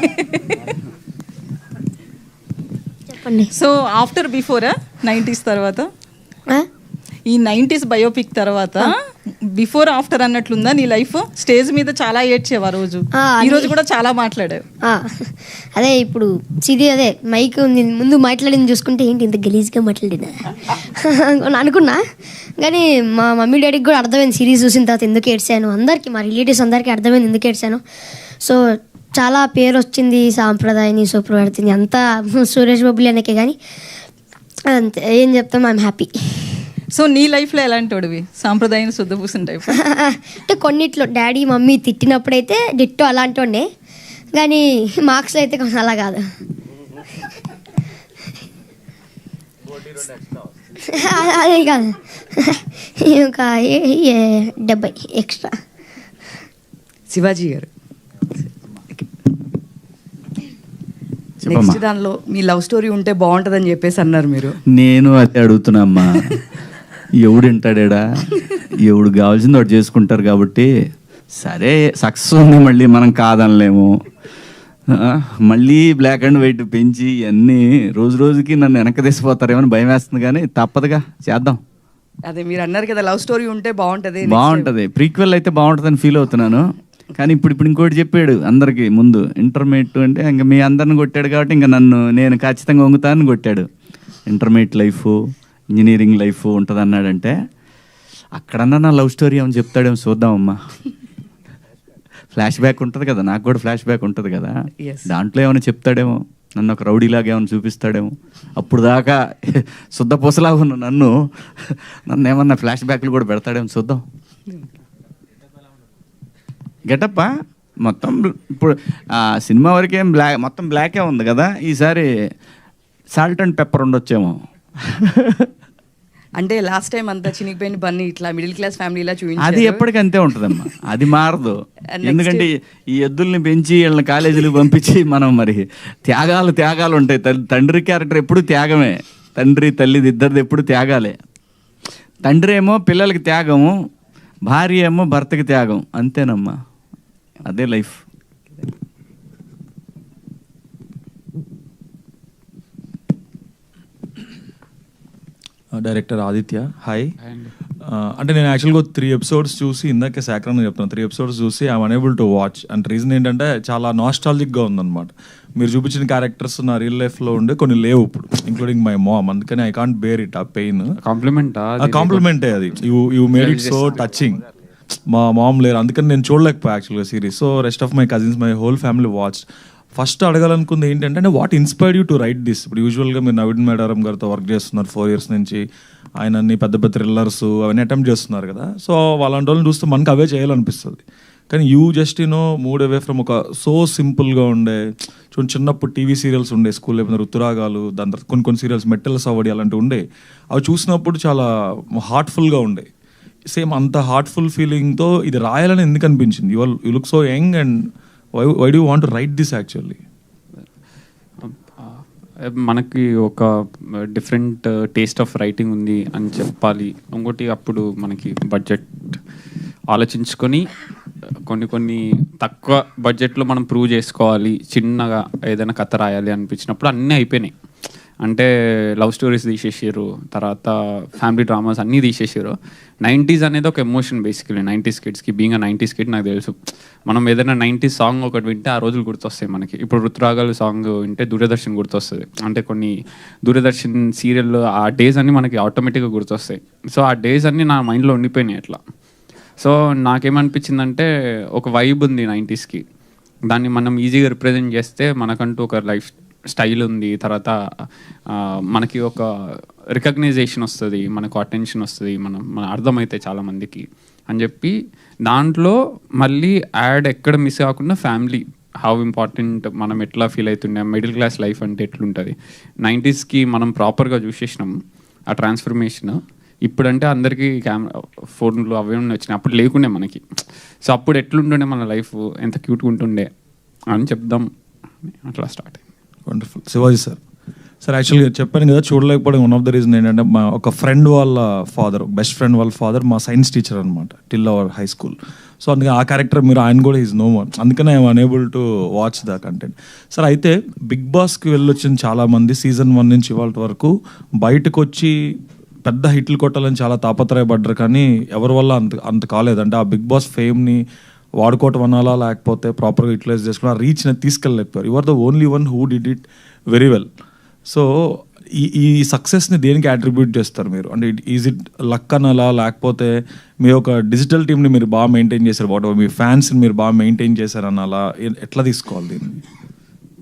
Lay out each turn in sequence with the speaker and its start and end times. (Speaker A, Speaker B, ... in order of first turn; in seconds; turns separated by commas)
Speaker A: 3.1-3.5, Speaker B: 3.9-5.8, Speaker B: 7.3-8.8, Speaker B: 9.6-13.0, Speaker A: 13.1-13.8, Speaker B: 14.0-14.6, Speaker A: 14.8-20.4, Speaker A: 20.9-22.0, Speaker A: 22.6-27.8, Speaker A: 29.1-33.6, Speaker A: 34.7-36.6, Speaker B: 37.0-39.7, Speaker A: 39.8-43.7, Speaker A: 44.3-46.2, Speaker A: 50.9-55.6, Speaker C: 57.1-57.7, Speaker C: 58.4-59.1, Speaker C: 61.4-64.5, Speaker D: 61.5-61.8, Speaker D: 64.7-66.2, Speaker D: 67.2-68.0, Speaker D: 68.8-70.7, Speaker D: 71.4-73.9, Speaker D: 74.9-81.6, Speaker C: 82.2-84.7, Speaker D: 84.2-86.6, Speaker D: 87.2-93.7, Speaker D: 94.3-95.2, Speaker D: 95.7-97.3, Speaker D: 98.3-100.6, Speaker D: 102.3-104.5, Speaker C: 104.8-105.1, Speaker D: 105.1-114.0, Speaker D: 116.9-117.3, Speaker D: 117.8-122.1, Speaker D: 123.1-125.5, Speaker C: 126.4-129.8, Speaker D: 129.4-141.2, Speaker C: 131.9-132.5, Speaker D: 142.2-143.7, Speaker D: 144.5-146.6, Speaker D: 147.5-148.0, Speaker E: 155.8-157.1, Speaker F: 157.2-157.5, Speaker E: 157.8-170.9, Speaker F: 171.0-172.3, Speaker E: 171.8-174.4, Speaker F: 173.3-174.0, Speaker E: 175.1-185.6, Speaker E: 186.2-194.8, Speaker E: 195.3-201.4, Speaker E: 202.0-202.9, Speaker E: 203.5-207.8, Speaker E: 208.4-210.0, Speaker F: 211.4-211.9, Speaker F: 212.7-213.5, Speaker F: 214.1-219.2, Speaker F: 219.9-220.7, Speaker F: 221.5-227.5, Speaker F: 228.2-236.5, Speaker F: 237.1-242.9, Speaker F: 243.5-248.8, Speaker F: 249.6-252.8, Speaker F: 253.5-257.5, Speaker F: 258.7-259.2, Speaker F: 259.9-264.7, Speaker F: 265.3-274.8, Speaker F: 275.3-280.2, Speaker F: 280.9-283.3, Speaker F: 283.9-284.5, Speaker F: 285.1-285.8, Speaker E: 286.3-287.2, Speaker E: 287.8-305.1, Speaker E: 305.9-310.8, Speaker E: 311.4-317.1, Speaker E: 317.7-329.4